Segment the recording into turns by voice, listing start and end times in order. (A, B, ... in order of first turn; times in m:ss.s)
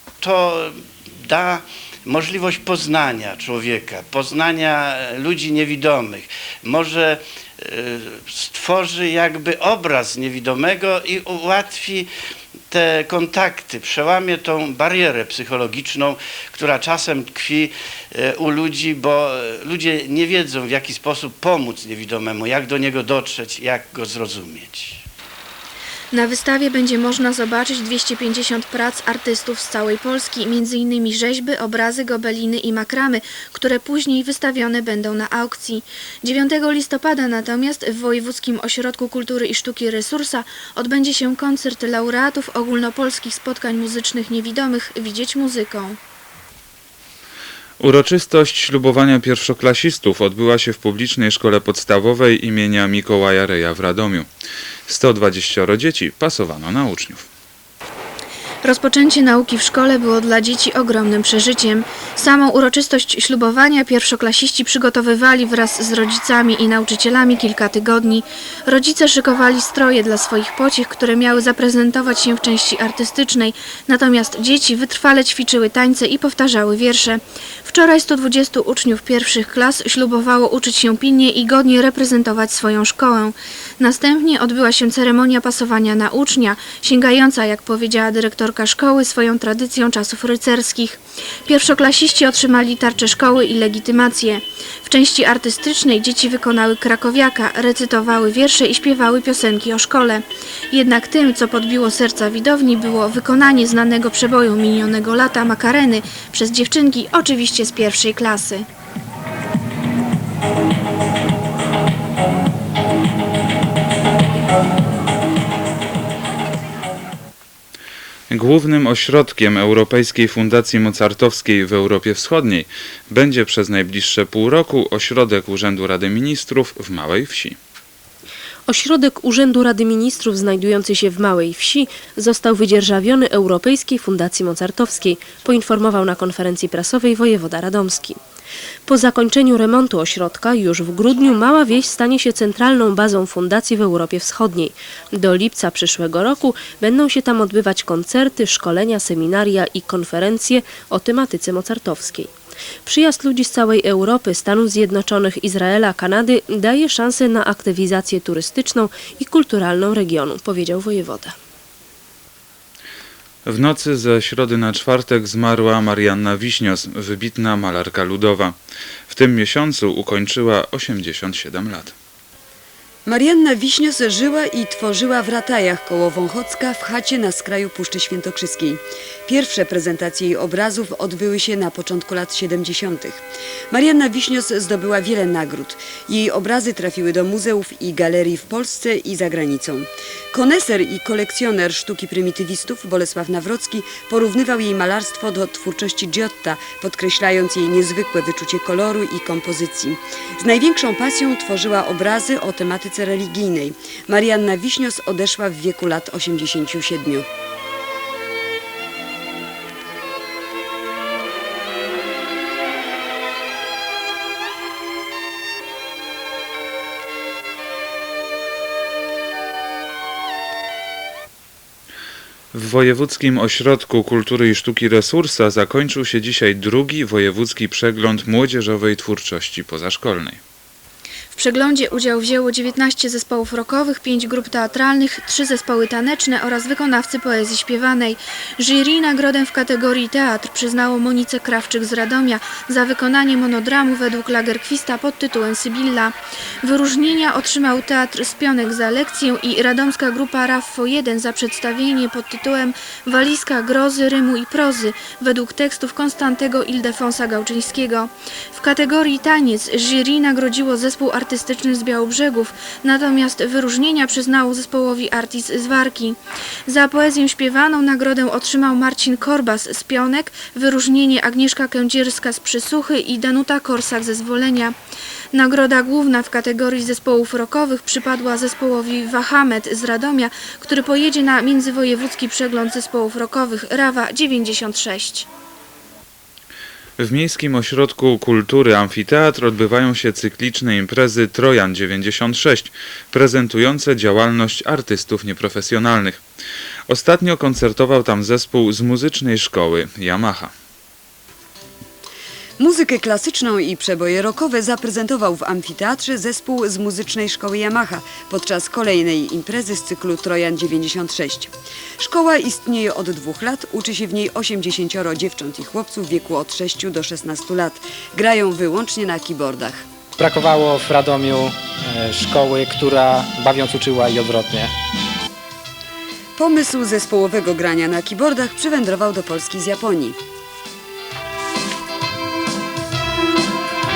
0:00.2-0:12.1 A
0:12.7-0:25.0 A
0:26.1-0:46.0 B
0:47.8-0:54.3 C
0:54.9-0:57.2 C
0:58.6-1:48.6 B
1:58.3-2:07.6 C
2:08.7-2:18.2 D
2:18.8-2:32.3 D
2:32.8-2:41.4 D
2:43.4-2:48.6 C
2:49.1-2:51.9 C
2:53.0-3:27.2 E
3:42.5-3:50.4 C
3:51.3-4:34.7 B
4:35.3-4:45.3 B
4:47.0-4:56.2 C
4:56.9-5:00.5 C
5:02.6-5:19.8 E
5:20.2-5:24.7 F
5:26.4-5:30.2 E